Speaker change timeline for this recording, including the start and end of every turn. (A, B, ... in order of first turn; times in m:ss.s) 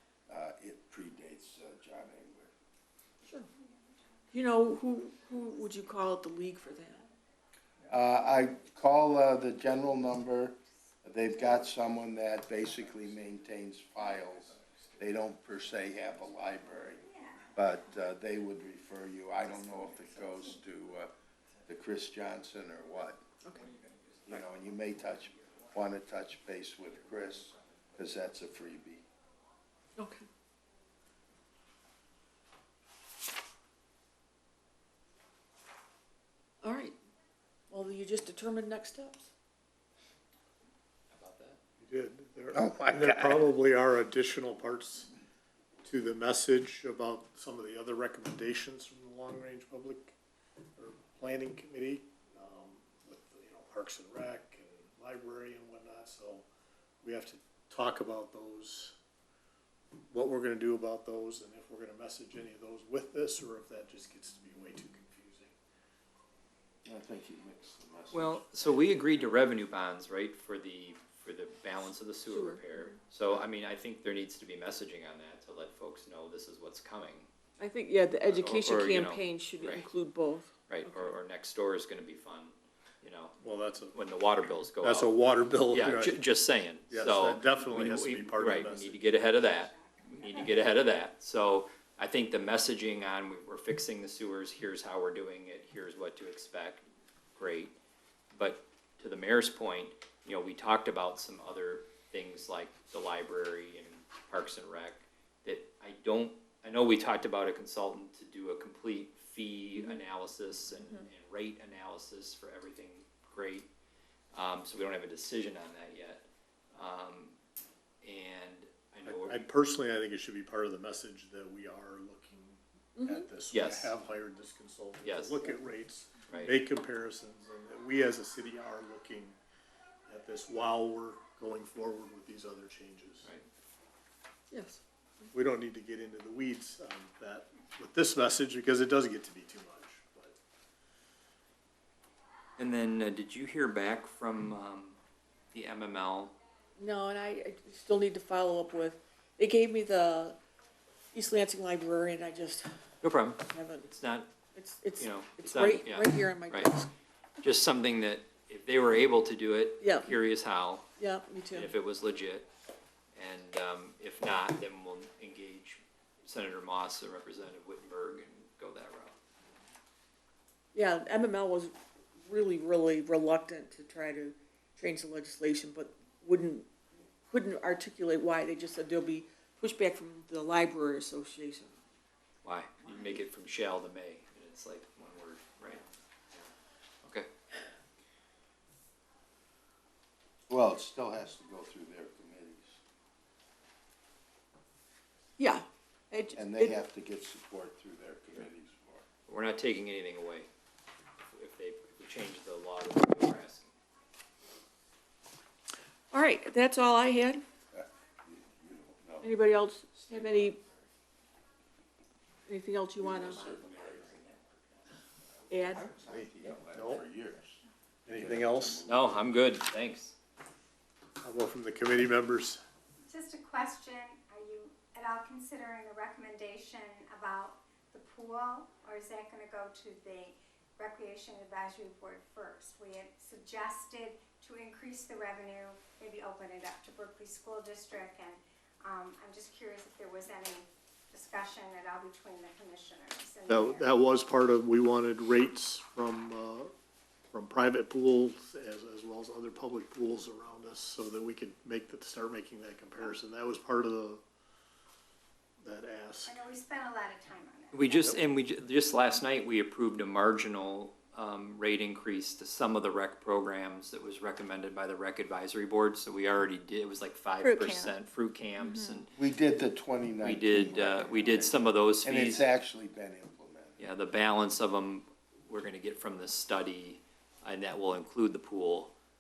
0:00.3-0:02.5 A
0:04.3-0:07.0 B
0:07.9-0:17.0 A
0:17.6-0:21.1 A
0:21.7-0:23.2 A
0:24.3-0:29.0 A
0:30.0-0:30.2 B
0:36.6-0:37.0 B
0:37.7-0:39.3 B
0:41.1-0:41.6 C
0:41.8-0:45.1 D
0:42.5-0:43.5 A
0:45.8-0:50.2 D
0:50.8-0:56.4 D
0:57.0-0:59.0 D
1:00.1-1:05.5 D
1:06.8-1:09.2 A
1:08.1-1:17.3 C
1:12.3-1:13.0 B
1:17.6-1:21.2 B
1:18.2-1:19.9 C
1:20.7-1:23.3 C
1:23.4-1:24.0 D
1:23.9-1:25.1 C
1:24.8-1:26.2 D
1:25.7-1:36.8 C
1:26.9-1:29.2 D
1:29.2-1:30.6 E
1:37.4-1:37.8 C
1:38.3-1:53.7 C
1:50.8-1:51.1 B
1:54.3-1:57.4 C
1:58.0-1:59.5 C
1:59.1-2:09.4 D
2:03.0-2:03.3 B
2:03.5-2:03.9 C
2:05.0-2:05.5 C
2:06.3-2:06.6 C
2:10.1-2:13.3 D
2:14.5-2:15.3 B
2:15.3-2:20.4 D
2:22.6-2:25.0 C
2:25.5-2:26.3 C
2:26.8-2:30.4 B
2:31.1-2:32.7 B
2:33.0-2:34.3 C
2:33.5-2:33.9 B
2:34.5-2:36.9 B
2:35.0-2:36.7 C
2:37.4-2:40.9 C
2:39.8-2:40.2 B
2:41.0-2:41.7 B
2:41.5-2:42.5 C
2:43.2-2:49.2 C
2:50.7-2:56.7 B
2:57.3-3:01.8 B
3:02.4-3:06.5 C
3:10.5-3:12.8 A
3:15.4-3:16.8 B
3:16.4-3:19.0 A
3:19.3-3:20.5 C
3:21.3-3:23.7 C
3:26.1-3:27.4 B
3:27.7-3:29.3 A
3:29.2-3:30.6 B
3:30.0-3:30.6 A
3:32.5-3:33.5 B
3:33.0-3:34.5 A
3:33.3-3:34.4 C
3:35.5-3:35.9 B
3:35.5-3:37.6 A
3:36.7-3:37.0 D
3:38.1-3:38.9 D
3:38.1-3:39.4 A
3:38.8-3:40.2 C
3:41.2-3:42.6 D
3:43.0-4:03.9 E
4:03.5-4:06.7 D
4:07.3-4:14.2 D
4:15.6-4:16.4 D
4:16.2-4:18.2 E
4:17.7-4:29.1 C
4:27.4-4:28.0 B
4:28.6-4:29.0 B
4:29.2-4:33.9 A
4:30.2-4:32.5 C
4:33.8-4:38.9 C